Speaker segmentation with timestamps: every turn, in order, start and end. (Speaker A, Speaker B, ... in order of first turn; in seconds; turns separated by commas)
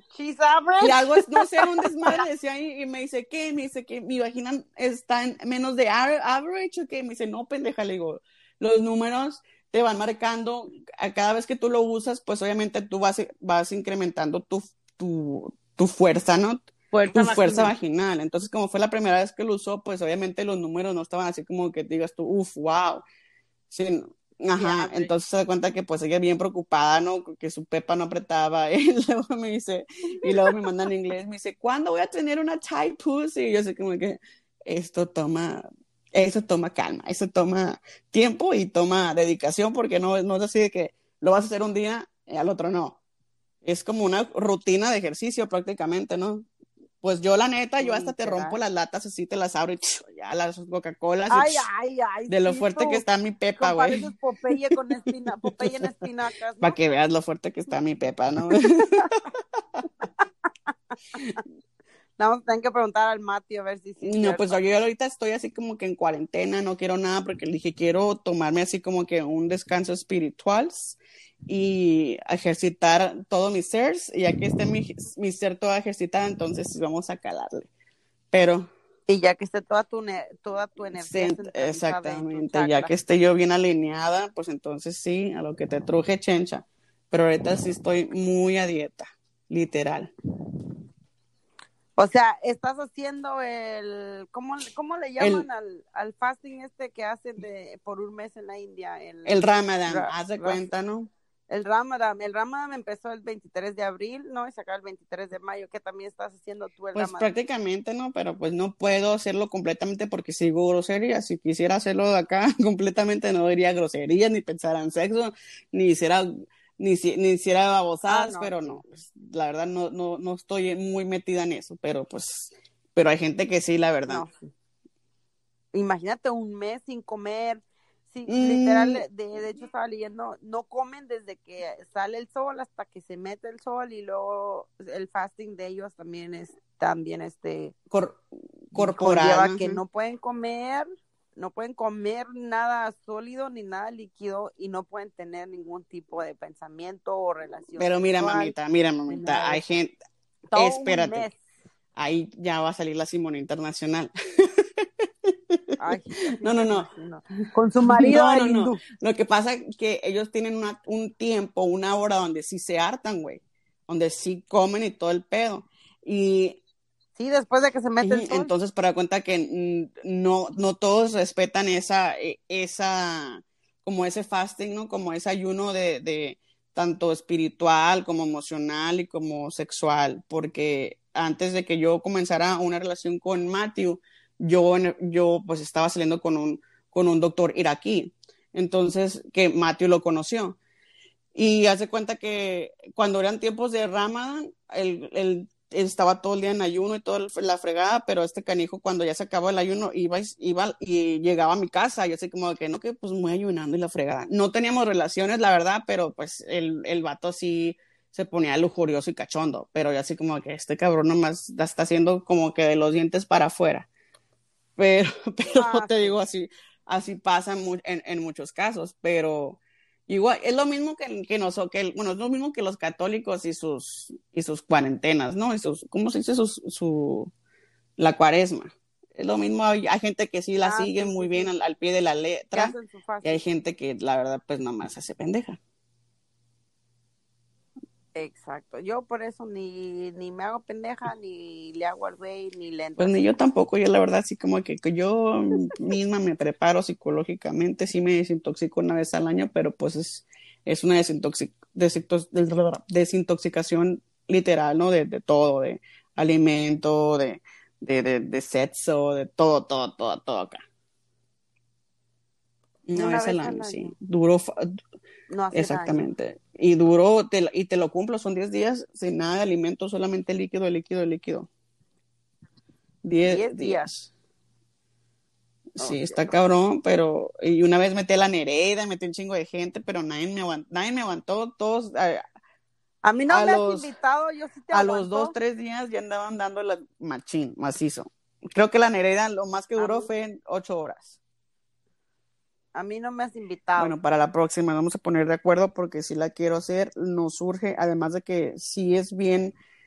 Speaker A: 0.1-1.7, Speaker B: 0.8-23.0, Speaker A: 16.9-17.7, Speaker B: 23.7-43.0, Speaker A: 24.6-25.1, Speaker A: 30.2-30.5, Speaker B: 43.6-46.5, Speaker B: 47.0-51.7, Speaker A: 47.8-48.5, Speaker A: 51.3-53.0, Speaker B: 52.3-54.7, Speaker A: 53.6-56.8, Speaker B: 56.6-59.1, Speaker A: 62.2-64.6, Speaker B: 64.0-77.7, Speaker B: 78.3-78.7, Speaker A: 79.1-82.9, Speaker B: 80.9-90.1, Speaker A: 92.0-100.7, Speaker B: 95.2-95.5, Speaker B: 99.2-101.1, Speaker A: 101.5-107.3, Speaker B: 106.9-124.2, Speaker A: 118.1-118.8, Speaker A: 124.1-124.5, Speaker A: 125.7-137.7, Speaker B: 128.3-129.0, Speaker B: 137.9-139.8, Speaker A: 138.7-148.5, Speaker B: 147.8-150.0, Speaker A: 149.1-149.7, Speaker A: 150.5-151.4, Speaker B: 150.5-151.3, Speaker B: 151.9-156.9, Speaker A: 155.8-158.8, Speaker B: 157.9-166.6, Speaker A: 167.2-168.5, Speaker B: 168.0-190.6, Speaker B: 191.3-213.9, Speaker B: 214.8-227.3, Speaker A: 215.5-216.2, Speaker B: 228.0-235.6, Speaker A: 230.6-231.5, Speaker A: 232.5-233.4, Speaker A: 238.1-243.4, Speaker B: 243.0-260.6, Speaker B: 262.9-264.8, Speaker A: 262.9-263.9, Speaker A: 265.3-266.0, Speaker B: 265.5-271.5, Speaker B: 273.0-274.1, Speaker A: 273.2-273.9, Speaker B: 275.8-282.2, Speaker A: 275.8-276.3, Speaker A: 283.0-285.3, Speaker B: 283.3-283.9, Speaker B: 284.7-291.2, Speaker A: 289.8-290.1, Speaker A: 292.7-293.9, Speaker B: 293.8-299.5